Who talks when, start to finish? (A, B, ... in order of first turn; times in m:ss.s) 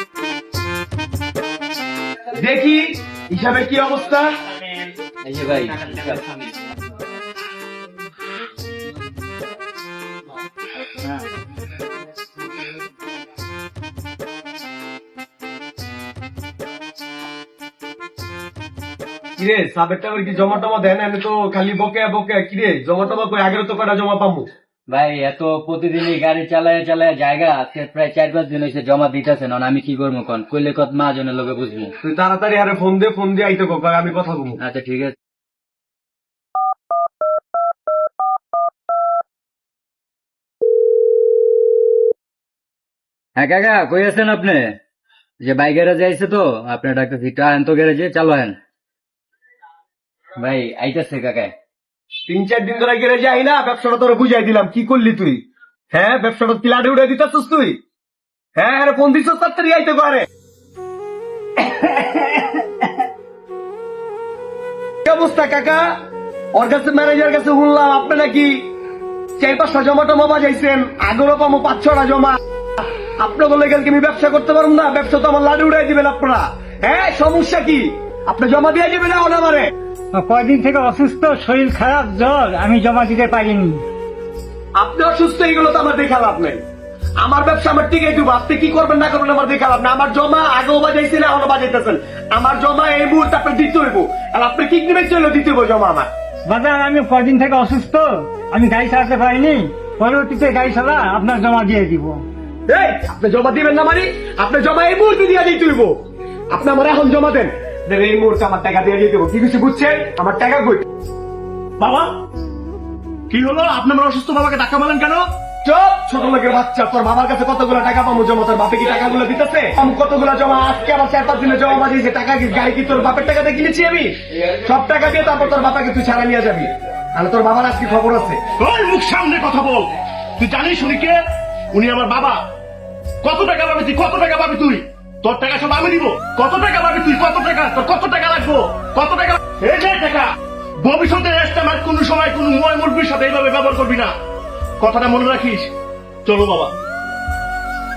0:02.3-0:04.3 A
0:05.2-0:06.2 B
0:19.4-0:24.5 A
0:24.9-0:31.9 B
0:32.0-0:34.6 A
0:34.6-0:35.1 B
0:43.4-0:44.8 B
0:45.4-0:48.6 B
0:50.4-0:51.5 B
0:52.3-0:57.8 A
0:58.6-1:00.3 A
1:01.8-1:02.2 B
1:05.0-1:05.9 A
1:06.5-1:08.6 A
1:09.4-1:12.4 A
1:13.2-1:19.7 A
1:20.1-1:23.8 C
1:24.8-1:26.6 A
1:27.2-1:36.1 A
1:36.5-1:42.2 C
1:42.7-1:46.0 A
1:46.5-1:50.8 A
1:51.8-1:52.2 D
1:53.3-1:55.3 D
1:55.6-2:08.4 A
2:08.6-2:11.2 D
2:11.7-2:12.4 D
2:13.2-2:20.3 D
2:20.8-2:24.1 D
2:24.8-2:25.7 D
2:26.2-2:26.7 D